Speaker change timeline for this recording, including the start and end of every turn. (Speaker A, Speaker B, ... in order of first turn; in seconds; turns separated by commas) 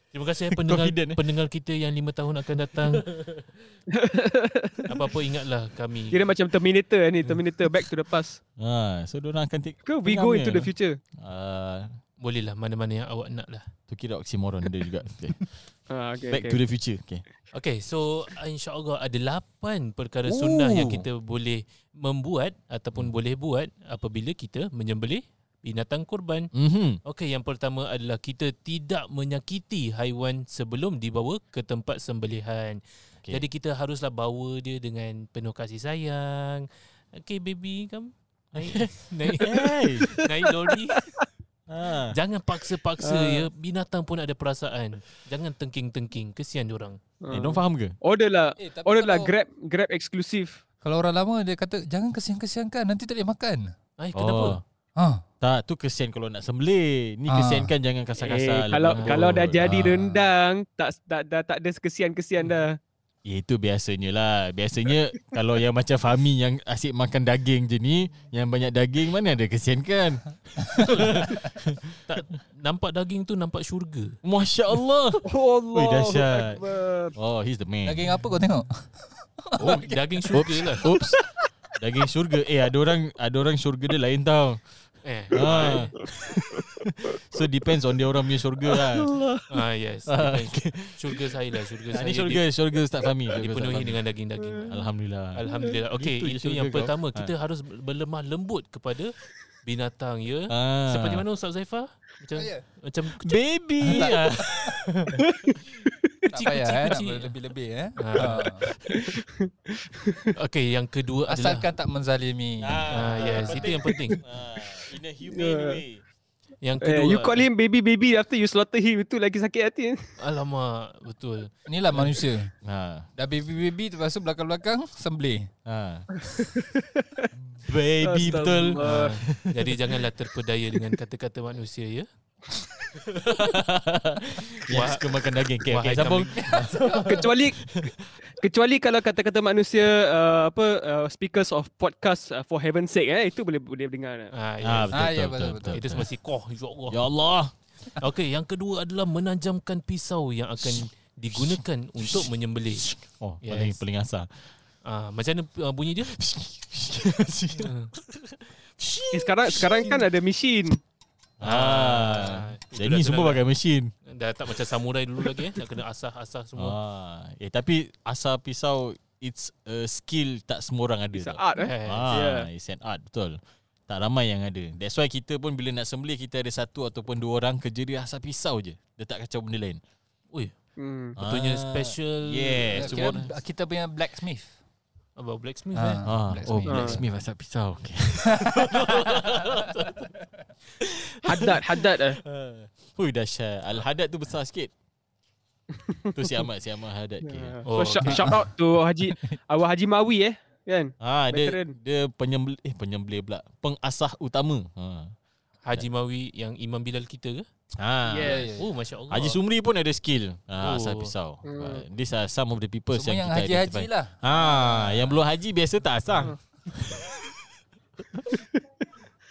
Speaker A: 0.1-3.1, Speaker B: 0.5-1.2, Speaker B: 2.9-3.3, Speaker C: 3.9-4.9, Speaker A: 4.9-6.2, Speaker C: 6.1-8.4, Speaker B: 8.6-11.9, Speaker C: 9.9-11.0, Speaker A: 12.2-13.7, Speaker B: 13.9-15.5, Speaker C: 15.9-16.6, Speaker B: 16.3-17.2, Speaker A: 17.5-26.5, Speaker B: 20.3-21.0, Speaker B: 26.5-27.0, Speaker A: 27.0-41.1, Speaker B: 38.5-40.1, Speaker B: 41.7-42.1, Speaker A: 42.1-47.0, Speaker C: 43.0-43.5, Speaker C: 47.2-50.6, Speaker B: 47.3-47.9, Speaker D: 48.6-49.3, Speaker D: 50.8-53.7, Speaker A: 54.0-54.6, Speaker B: 54.1-54.6, Speaker D: 55.0-55.2, Speaker B: 55.4-60.1, Speaker D: 57.3-57.7, Speaker C: 58.2-62.8, Speaker A: 58.9-59.5, Speaker B: 63.2-72.0, Speaker A: 70.9-71.3, Speaker A: 72.0-74.2, Speaker B: 74.2-76.6, Speaker C: 75.2-77.1, Speaker B: 77.1-78.1, Speaker D: 77.8-80.9, Speaker B: 79.6-81.2, Speaker A: 79.6-80.8, Speaker B: 81.8-84.6, Speaker A: 85.0-85.9, Speaker B: 85.3-89.1, Speaker C: 88.7-89.4, Speaker A: 89.5-92.4, Speaker B: 90.1-91.2, Speaker B: 91.9-94.0, Speaker A: 93.3-94.8, Speaker B: 94.6-95.4, Speaker A: 95.3-105.2, Speaker B: 95.9-97.3, Speaker B: 100.5-101.2, Speaker D: 102.3-102.6, Speaker B: 103.2-104.8, Speaker D: 103.8-104.7, Speaker A: 106.3-107.3, Speaker D: 106.3-108.7, Speaker A: 108.0-108.5, Speaker C: 108.9-110.3, Speaker A: 110.3-111.7, Speaker D: 111.3-113.7, Speaker B: 112.6-116.0, Speaker A: 112.9-114.2, Speaker C: 115.3-115.8, Speaker A: 116.6-117.4, Speaker C: 116.8-120.0, Speaker A: 120.2-122.2, Speaker D: 121.7-122.5, Speaker B: 122.6-123.1, Speaker D: 123.2-125.5, Speaker B: 125.7-126.1, Speaker C: 126.2-127.3, Speaker B: 127.6-129.8, Speaker C: 128.0-129.1, Speaker A: 128.8-132.1, Speaker B: 133.1-138.1, Speaker A: 134.7-135.0, Speaker A: 135.6-136.8, Speaker D: 136.4-137.1, Speaker C: 137.0-137.6, Speaker C: 138.3-144.3, Speaker A: 144.3-145.0, Speaker B: 144.6-146.1, Speaker D: 144.9-146.0, Speaker A: 145.7-147.0, Speaker B: 146.9-147.5, Speaker A: 147.9-152.9, Speaker B: 151.3-154.5, Speaker A: 153.4-153.8, Speaker A: 154.8-156.2, Speaker B: 156.1-160.0, Speaker A: 157.6-157.9, Speaker C: 159.1-160.8, Speaker B: 161.4-163.9, Speaker A: 161.4-163.4, Speaker A: 164.1-166.8, Speaker B: 166.6-179.8, Speaker C: 171.1-172.5, Speaker A: 171.6-172.1, Speaker C: 180.8-181.2, Speaker B: 181.2-183.3, Speaker A: 181.2-183.2, Speaker D: 182.7-184.6, Speaker A: 185.2-186.0, Speaker D: 185.7-187.0, Speaker B: 186.0-190.1, Speaker C: 186.7-187.0, Speaker D: 188.3-189.0, Speaker A: 188.9-189.3, Speaker D: 189.6-190.1, Speaker B: 190.8-194.7, Speaker C: 191.2-192.2, Speaker C: 195.9-196.1, Speaker B: 196.1-197.6, Speaker C: 197.2-201.7, Speaker A: 197.7-198.3, Speaker D: 198.1-198.5, Speaker B: 201.0-205.1, Speaker A: 205.6-207.4, Speaker B: 207.8-208.5, Speaker C: 208.1-208.4, Speaker D: 208.2-208.7, Speaker A: 208.5-209.4, Speaker B: 209.1-217.3, Speaker A: 210.6-211.1, Speaker C: 211.4-211.8, Speaker D: 212.9-215.2, Speaker C: 218.3-218.8